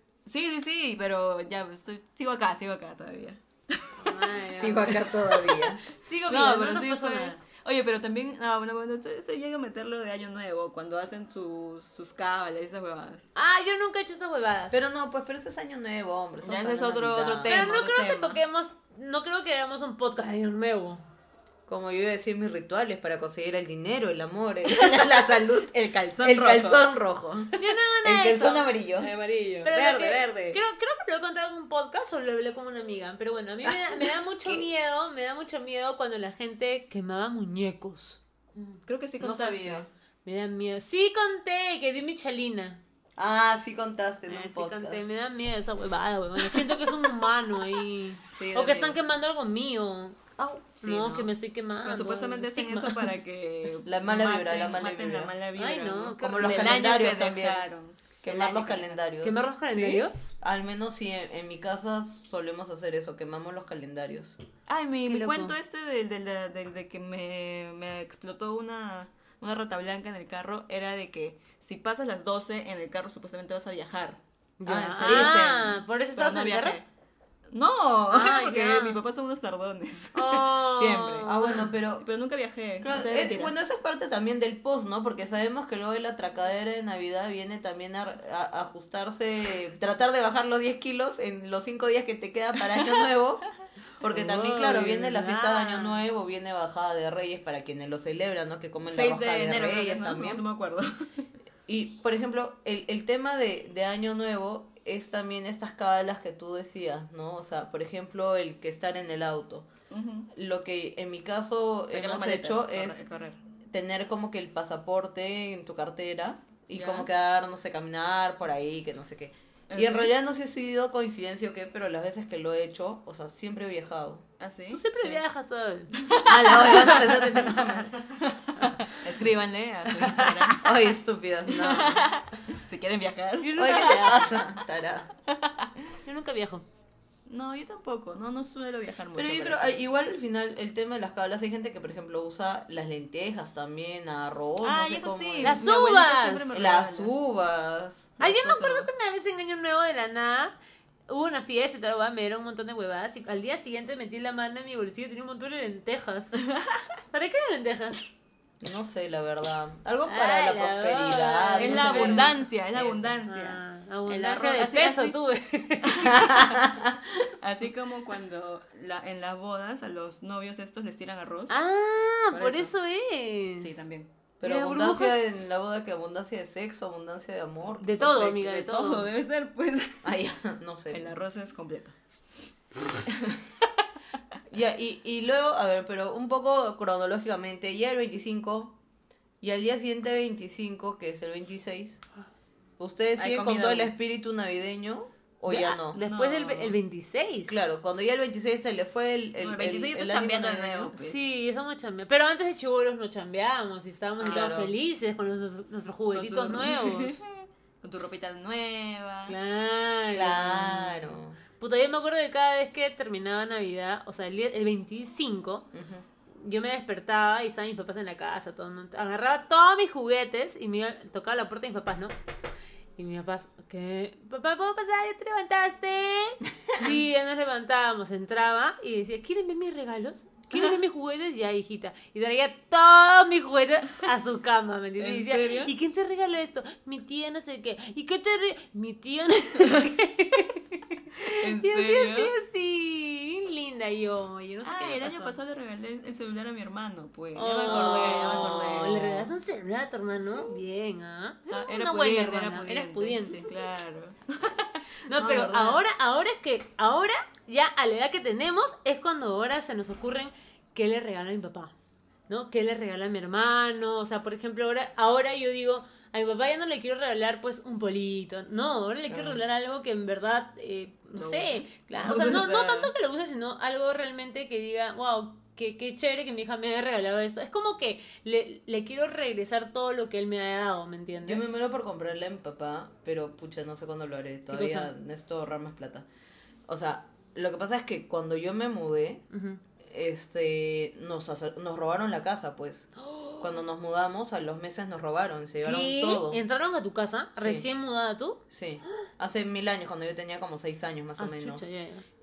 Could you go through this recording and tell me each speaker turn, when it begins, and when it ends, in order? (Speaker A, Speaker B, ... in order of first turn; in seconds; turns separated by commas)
Speaker A: 0.3-3.9, Speaker B: 4.0-7.4, Speaker C: 4.5-5.8, Speaker A: 6.3-13.3, Speaker B: 13.3-14.8, Speaker C: 14.7-17.6, Speaker A: 16.4-18.4, Speaker B: 17.4-21.1, Speaker C: 21.7-27.5, Speaker A: 24.7-26.9, Speaker B: 27.6-28.7, Speaker C: 28.0-29.1, Speaker A: 29.0-30.6, Speaker B: 29.6-38.2, Speaker A: 38.9-39.9, Speaker C: 39.2-39.9, Speaker B: 40.2-42.8, Speaker C: 43.2-45.0, Speaker B: 44.3-50.2, Speaker A: 48.3-49.0, Speaker C: 50.4-50.7, Speaker B: 50.8-53.1, Speaker A: 50.8-51.3, Speaker A: 51.8-59.0, Speaker C: 53.9-55.3, Speaker B: 55.6-56.9, Speaker C: 56.2-57.6, Speaker C: 58.2-59.4, Speaker B: 59.2-60.2, Speaker A: 59.7-60.0, Speaker C: 60.4-64.4, Speaker A: 64.7-74.2, Speaker B: 65.1-65.5, Speaker B: 74.6-76.8, Speaker C: 74.7-75.5, Speaker A: 75.0-76.8, Speaker A: 77.5-83.5, Speaker B: 78.1-79.0, Speaker B: 80.2-81.6, Speaker C: 81.2-82.1, Speaker C: 82.8-93.5, Speaker C: 94.0-100.4, Speaker B: 94.1-96.0, Speaker A: 98.9-100.9, Speaker C: 101.7-109.7, Speaker A: 109.9-110.3, Speaker C: 110.3-113.0, Speaker A: 111.9-113.4, Speaker C: 113.7-124.2, Speaker A: 116.7-117.1, Speaker A: 119.7-120.1, Speaker A: 124.4-124.8, Speaker B: 124.7-125.9, Speaker A: 126.0-127.1, Speaker C: 126.2-127.9, Speaker B: 126.5-127.9, Speaker A: 127.9-130.7, Speaker B: 130.0-130.5, Speaker C: 130.6-132.1, Speaker A: 131.5-134.4, Speaker B: 133.4-134.2, Speaker C: 133.6-135.1, Speaker A: 135.3-135.7, Speaker B: 136.0-136.7, Speaker A: 137.3-139.8, Speaker C: 139.2-145.6, Speaker A: 144.6-147.1, Speaker B: 145.4-146.5, Speaker C: 146.5-148.2, Speaker A: 148.2-148.9, Speaker B: 148.2-150.5, Speaker B: 151.1-156.4, Speaker A: 156.4-156.8, Speaker B: 157.1-158.1, Speaker C: 158.6-163.2, Speaker B: 160.1-162.3, Speaker A: 161.6-165.2, Speaker B: 163.3-166.4, Speaker A: 165.8-166.6, Speaker C: 166.1-167.1, Speaker A: 167.4-171.6, Speaker B: 171.5-173.8, Speaker A: 172.3-172.7, Speaker A: 173.6-174.1, Speaker C: 174.4-178.0, Speaker B: 174.4-175.2, Speaker B: 177.8-179.1, Speaker A: 178.0-180.1, Speaker C: 180.0-181.1, Speaker A: 180.9-181.9, Speaker A: 183.1-183.5, Speaker C: 184.5-188.7, Speaker C: 189.4-192.0, Speaker C: 192.8-196.0, Speaker A: 193.2-193.9, Speaker B: 195.5-197.6, Speaker A: 196.0-196.8, Speaker C: 197.5-200.9, Speaker A: 199.4-201.2, Speaker B: 201.0-207.2, Speaker C: 204.2-204.7, Speaker A: 204.2-204.5, Speaker A: 206.1-209.4, Speaker B: 209.3-215.7, Speaker C: 210.1-211.4, Speaker C: 215.7-216.0, Speaker B: 216.4-222.2, Speaker B: 223.0-245.4, Speaker A: 235.0-235.7, Speaker A: 241.2-242.3, Speaker A: 244.6-249.2, Speaker B: 247.3-253.5, Speaker C: 247.7-249.1, Speaker A: 250.2-250.5, Speaker A: 251.5-254.8, Speaker B: 255.0-261.7, Speaker C: 255.2-255.8, Speaker B: 262.3-281.5, Speaker C: 269.1-269.4, Speaker A: 271.2-272.9, Speaker C: 281.2-286.1, Speaker B: 284.5-284.9, Speaker C: 286.7-289.2, Speaker B: 289.3-289.6, Speaker C: 289.8-296.4, Speaker B: 293.0-293.5, Speaker B: 295.6-298.4, Speaker C: 297.4-297.7, Speaker C: 298.5-301.7, Speaker B: 301.2-302.0